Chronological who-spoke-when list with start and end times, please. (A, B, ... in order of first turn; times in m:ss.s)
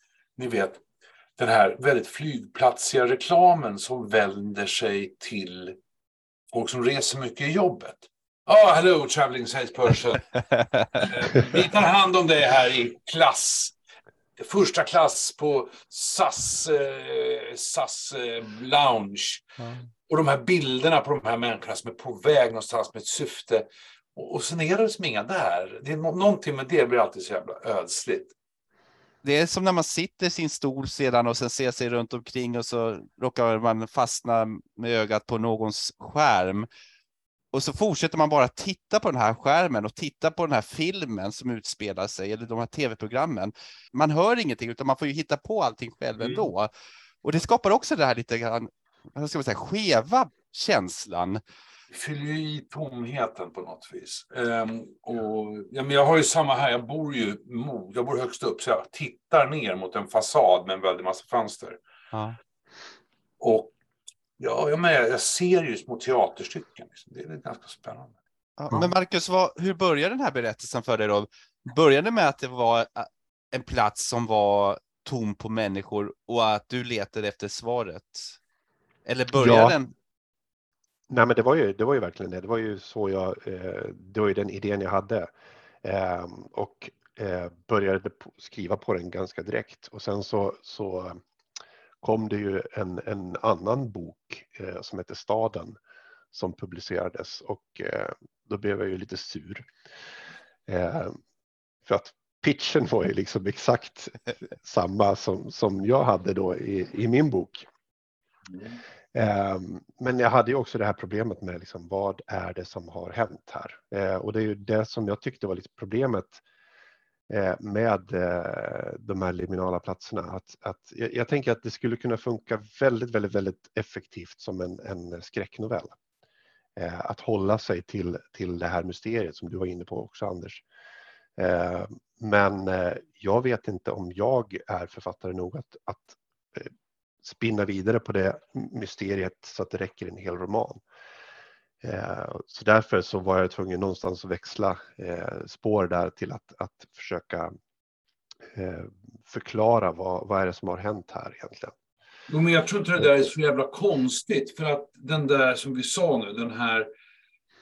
0:00.4-0:00.8 A
0:01.4-0:05.8 A
0:06.5-0:10.2 A
0:11.0-0:13.7 A
0:14.4-0:19.4 A
0:20.1-0:28.3 A
0:29.2-0:36.7 B
0:37.5-0:46.7 B
0:46.2-0:46.5 A
0:47.2-0:51.4 B
0:51.9-1:01.8 A
1:02.1-1:02.4 B
1:03.4-1:03.7 A
1:04.4-1:08.1 A
1:08.6-1:18.4 B
1:19.0-1:19.9 B
1:19.3-1:19.8 C
1:21.1-1:25.3 C
1:25.8-1:31.2 C
1:32.0-1:35.8 C
1:36.3-1:39.7 C
1:40.7-1:41.2 C
1:41.8-1:47.7 C
1:48.5-1:48.8 A
1:49.1-1:56.4 C
1:57.3-2:06.0 C
2:06.8-2:10.6 C
2:11.4-2:16.7 C
2:17.2-2:20.8 C
2:21.8-2:27.5 C
2:28.5-2:31.7 C
2:32.3-2:36.9 A